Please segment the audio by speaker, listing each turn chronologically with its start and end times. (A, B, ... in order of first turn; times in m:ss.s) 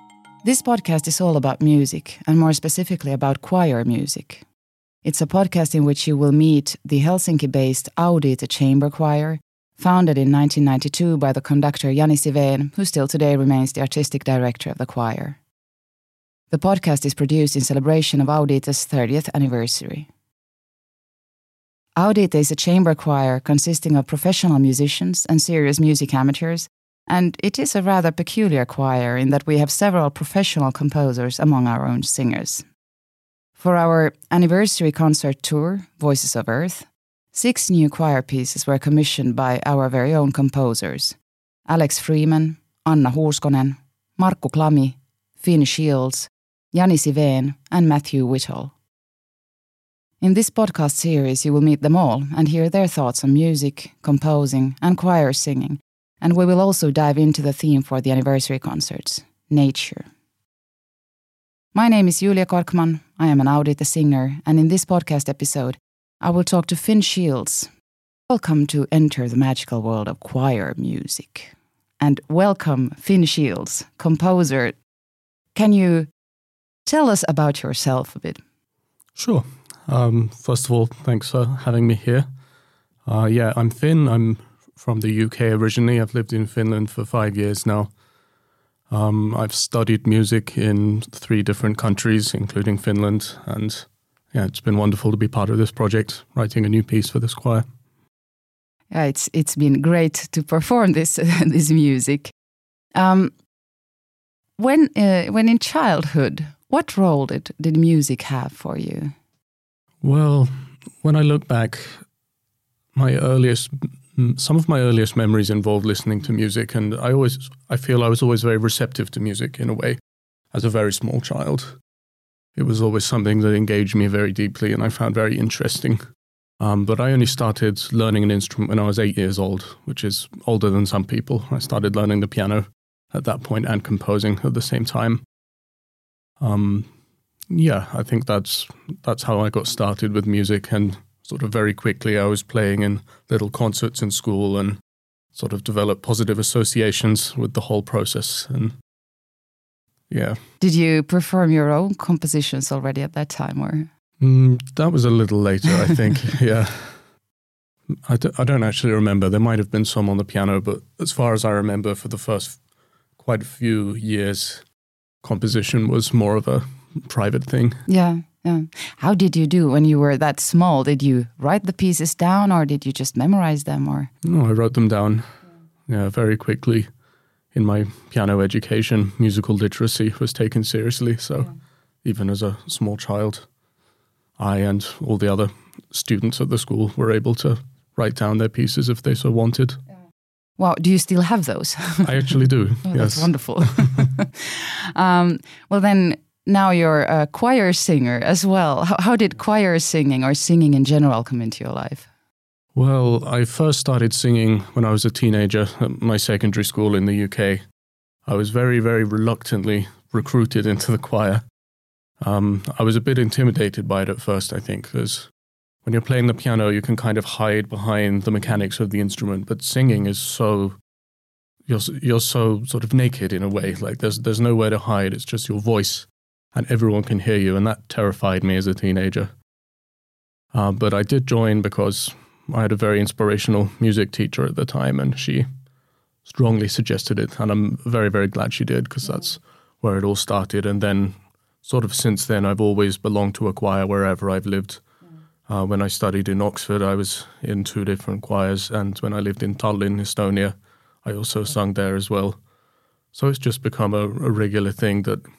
0:00.4-0:04.4 A
0:05.0-0:15.4 A
0:16.5-0:20.1 A
0:22.0-0:32.6 A
0:33.6-0:48.7 A
0:50.2-1:00.1 A
1:01.7-1:07.7 A
1:08.3-1:14.8 A
1:15.5-1:16.1 A
1:16.8-1:18.4 A
1:19.2-1:22.3 B
1:23.0-1:27.9 B
1:28.9-1:37.6 B
1:38.9-1:42.3 A
1:42.9-1:43.3 A
1:44.6-1:49.1 A
1:50.0-1:52.0 B
1:52.9-2:00.0 B
2:00.5-2:01.8 B
2:02.6-2:06.0 B
2:06.6-2:15.2 B
2:16.4-2:16.9 B
2:17.5-2:24.8 B
2:25.3-2:28.8 B
2:30.1-2:30.4 B
2:30.6-2:33.9 A
2:34.2-2:37.1 B
2:37.9-2:42.6 B
2:43.2-2:44.7 B
2:45.2-2:47.8 B
2:47.8-2:54.1 A
2:54.2-2:56.9 B
2:57.5-3:01.5 B
3:02.0-3:03.5 B
3:04.4-3:09.8 B
3:10.6-3:12.3 A
3:12.0-3:14.0 B
3:12.8-3:22.1 A
3:22.8-3:27.6 B
3:28.2-3:31.4 B
3:32.2-3:35.3 B
3:35.8-3:40.8 B
3:41.7-3:49.3 B
3:50.5-3:55.5 B
3:56.2-4:04.8 B
4:05.5-4:12.4 B
4:13.1-4:15.2 B